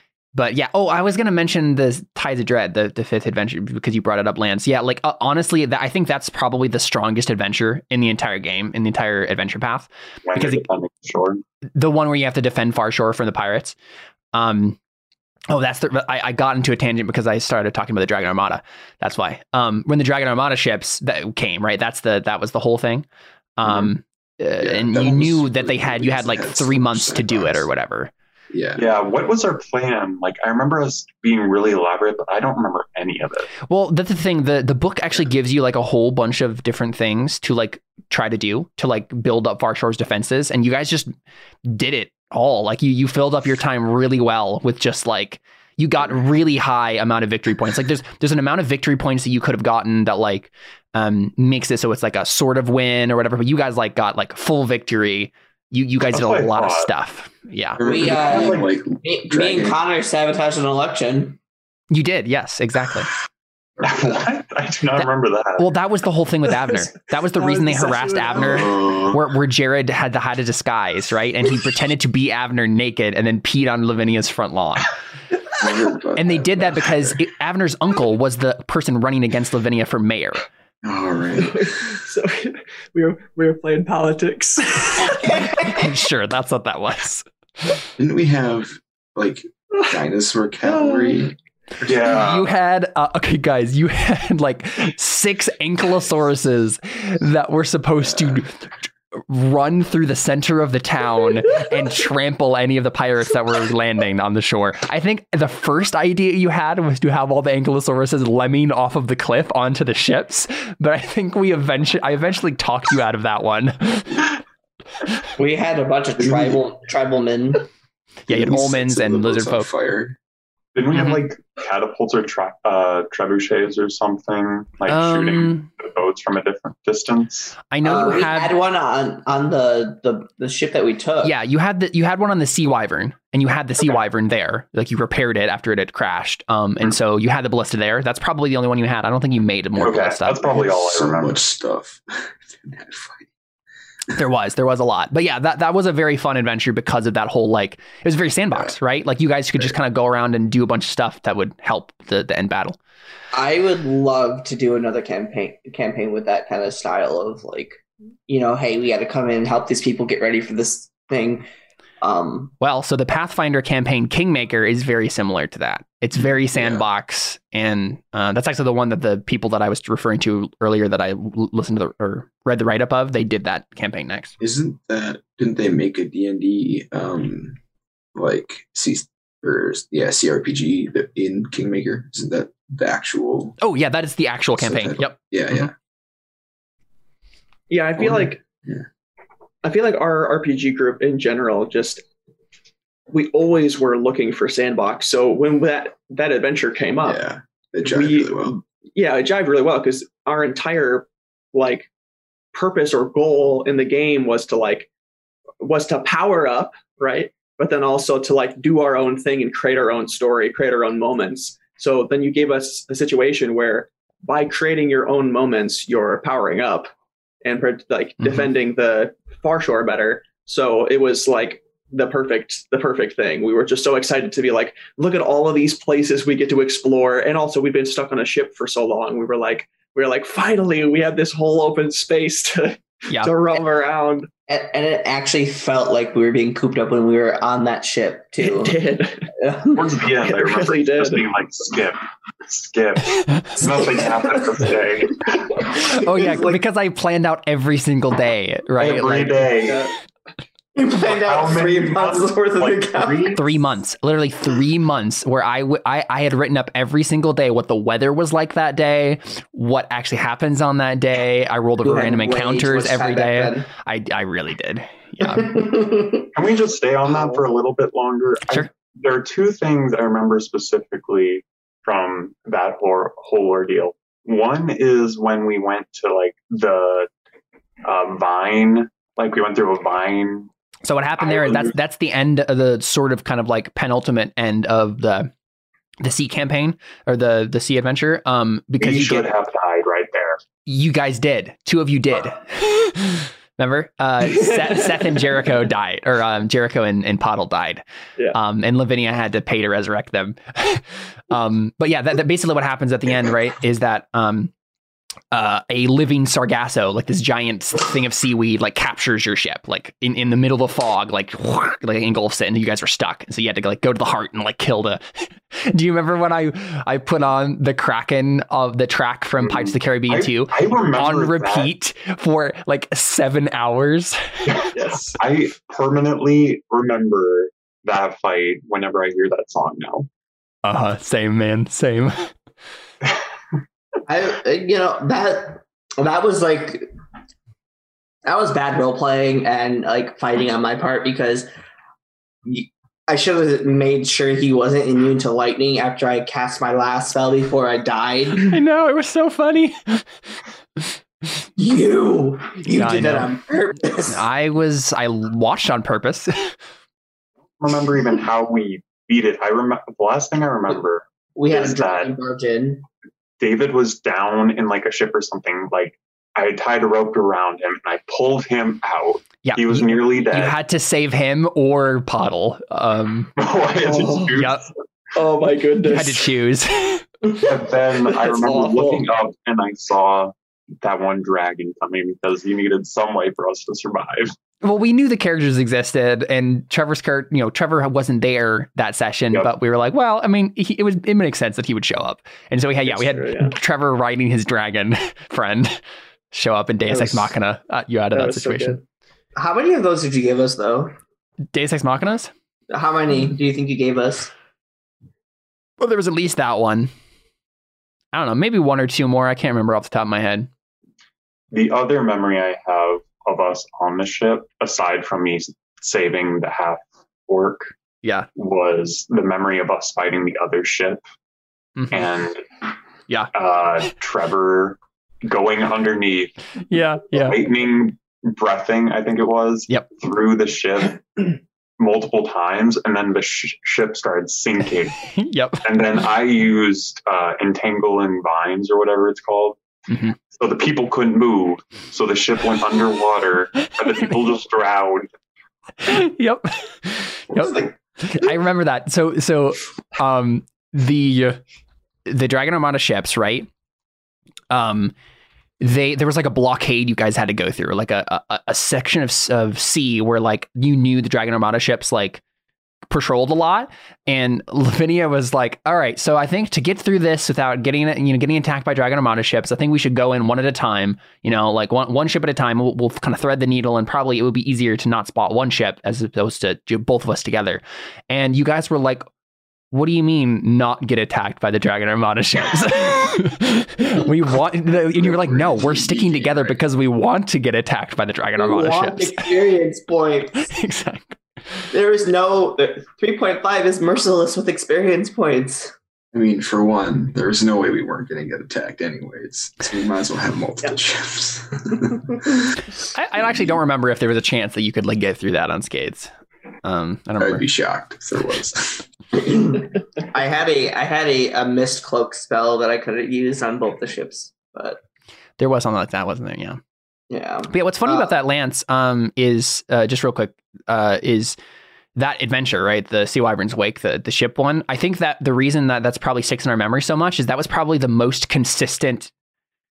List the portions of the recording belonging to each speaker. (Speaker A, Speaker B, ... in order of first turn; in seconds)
Speaker A: 0.3-10.6, 11.8-13.8, 14.3-14.8, 15.5-23.1, 23.6-28.1, 33.7-41.1, 41.6-58.5, 61.9-63.1, 65.0-74.9, 76.2-80.5, 85.6-87.8, 92.1-98.6, 99.1-114.3, 118.3-119.7, 120.9-121.2, 124.9-125.7, 127.7-128.5, 131.2-140.6, 144.1-152.8, 162.6-174.3, 183.6-185.7, 218.2-218.5, 233.1-233.6, 245.8-249.5, 253.3-265.7, 280.9-285.3, 286.0-289.3, 290.7-304.5, 305.3-324.2, 330.6-332.3, 348.4-350.1, 352.7-353.3, 354.1-356.6, 369.4-373.3, 374.3-374.6, 375.8-377.1, 384.6-395.8, 396.3-398.8, 401.5-402.3, 405.8-406.9, 408.1-410.5, 421.8-422.1, 426.7-427.4, 435.1-435.7, 439.9-440.1, 445.8-451.4, 452.1-453.5, 454.5-454.9, 455.6-462.2, 462.9-479.1, 479.7-489.3, 490.4-491.2, 502.9-506.1, 506.6-507.4, 515.4-516.6, 517.5-521.4, 522.0-529.1
Speaker B: 10.3-11.4, 28.8-33.5, 56.1-56.9, 63.8-65.7, 91.8-92.5, 120.8-127.5, 139.8-141.4, 239.7-245.7, 248.8-249.8, 251.1-253.4, 266.4-277.1, 277.8-280.5, 281.2-281.7, 288.8-290.4, 319.4-321.7, 325.2-330.1, 357.6-362.1, 363.4-370.6, 373.4-374.7, 377.4-384.3, 411.5-417.7, 418.4-421.0, 421.9-422.4, 423.3-426.4, 427.1-435.0, 435.6-439.6, 440.3-445.1
Speaker C: 23.6-23.9, 24.6-27.7, 28.5-28.8, 57.8-59.8, 63.8-64.3, 68.4-69.2, 75.6-77.2, 80.8-81.9, 88.0-92.1, 98.0-98.4, 116.2-116.6, 118.3-120.2, 139.8-143.3, 166.2-166.8, 174.4-177.6, 178.2-183.6, 184.6-185.7, 188.0-188.9, 197.0-198.6, 484.9-486.6, 496.1-502.6, 503.2-503.6, 507.2-508.9
Speaker D: 57.8-61.4, 115.4-117.7, 127.8-131.3, 153.3-161.4, 162.0-162.5, 234.5-238.8, 239.4-239.9, 243.7-244.0, 245.6-246.6, 250.8-253.4, 261.8-263.7, 265.2-266.3, 334.1-336.9, 338.3-341.5, 342.5-348.6, 351.6-354.2, 361.4-362.9, 399.4-400.9, 402.7-404.3, 488.4-490.5, 491.7-495.7, 509.2-514.8, 517.1-518.1
Speaker E: 67.3-68.8, 81.5-85.5, 90.7-91.3, 187.7-188.4, 189.6-192.0, 193.1-197.2, 197.8-201.9, 202.5-204.9, 205.6-216.9, 217.4-234.3, 238.4-239.3, 240.1-241.3, 249.7-249.9, 324.7-325.2, 373.8-374.4, 375.1-376.3, 378.1-379.1, 392.9-393.6, 396.9-397.3, 398.1-398.8